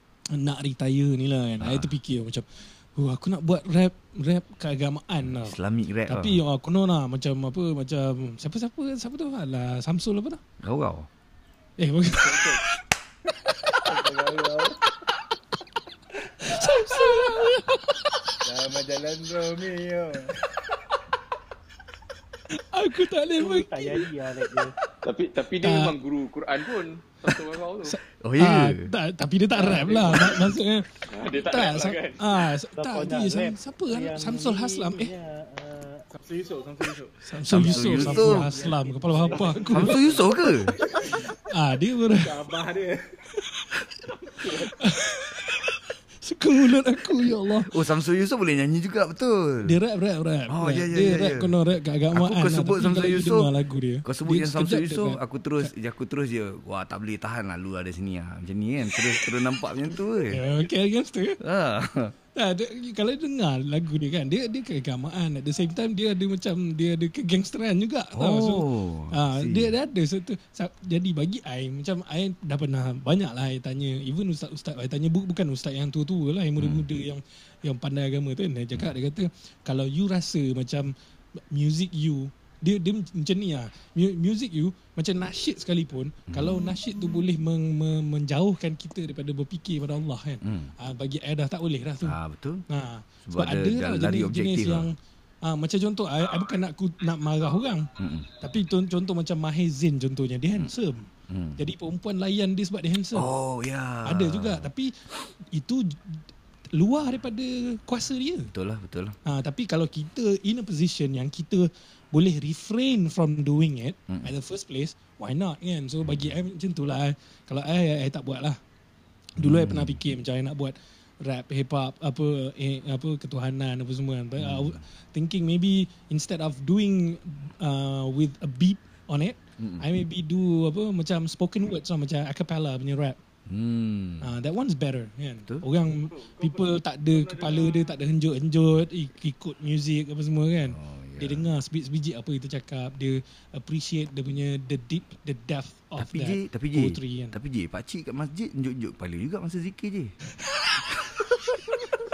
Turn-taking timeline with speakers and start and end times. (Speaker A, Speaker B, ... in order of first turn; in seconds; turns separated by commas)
Speaker A: 0.3-5.5, Speaker B: 1.6-1.9, Speaker B: 5.2-6.4, Speaker A: 6.1-10.4, Speaker B: 10.6-11.1, Speaker A: 11.8-12.6, Speaker C: 12.1-12.6, Speaker C: 13.7-14.8, Speaker A: 16.2-18.4, Speaker C: 18.4-20.3, Speaker A: 22.5-23.9, Speaker D: 23.4-24.7, Speaker E: 25.0-27.9, Speaker A: 25.6-25.9, Speaker A: 27.9-35.1, Speaker B: 28.2-28.9, Speaker E: 29.5-30.5, Speaker E: 31.1-32.2, Speaker D: 32.8-33.5, Speaker D: 34.1-36.0, Speaker C: 36.1-41.3, Speaker A: 37.2-40.1, Speaker B: 37.5-38.6, Speaker B: 39.7-40.8, Speaker A: 41.5-42.3, Speaker C: 42.1-43.0, Speaker A: 44.4-45.6, Speaker A: 46.2-47.8, Speaker B: 47.6-49.7, Speaker A: 49.6-55.7, Speaker B: 50.5-51.5, Speaker B: 52.1-53.5, Speaker B: 54.0-60.4, Speaker A: 60.3-61.4, Speaker B: 61.4-62.1, Speaker A: 62.3-80.9, Speaker B: 68.1-69.7, Speaker B: 76.6-76.8, Speaker A: 81.5-92.2, Speaker B: 86.3-86.8, Speaker B: 90.4-90.7, Speaker B: 92.0-92.6, Speaker A: 92.7-94.9, Speaker B: 93.2-94.9, Speaker A: 95.4-97.9, Speaker B: 98.0-98.3, Speaker A: 98.4-103.3, Speaker B: 101.3-101.7, Speaker B: 103.1-104.7, Speaker A: 104.0-104.9, Speaker A: 105.5-108.5, Speaker B: 108.5-109.2, Speaker A: 109.2-118.6, Speaker B: 114.1-114.3, Speaker B: 116.0-116.3, Speaker A: 119.4-133.2, Speaker B: 119.4-120.0, Speaker B: 124.4-124.8, Speaker B: 129.6-129.8, Speaker B: 133.5-134.3, Speaker A: 134.2-147.4, Speaker C: 136.1-138.0, Speaker B: 140.7-141.5, Speaker B: 146.0-150.1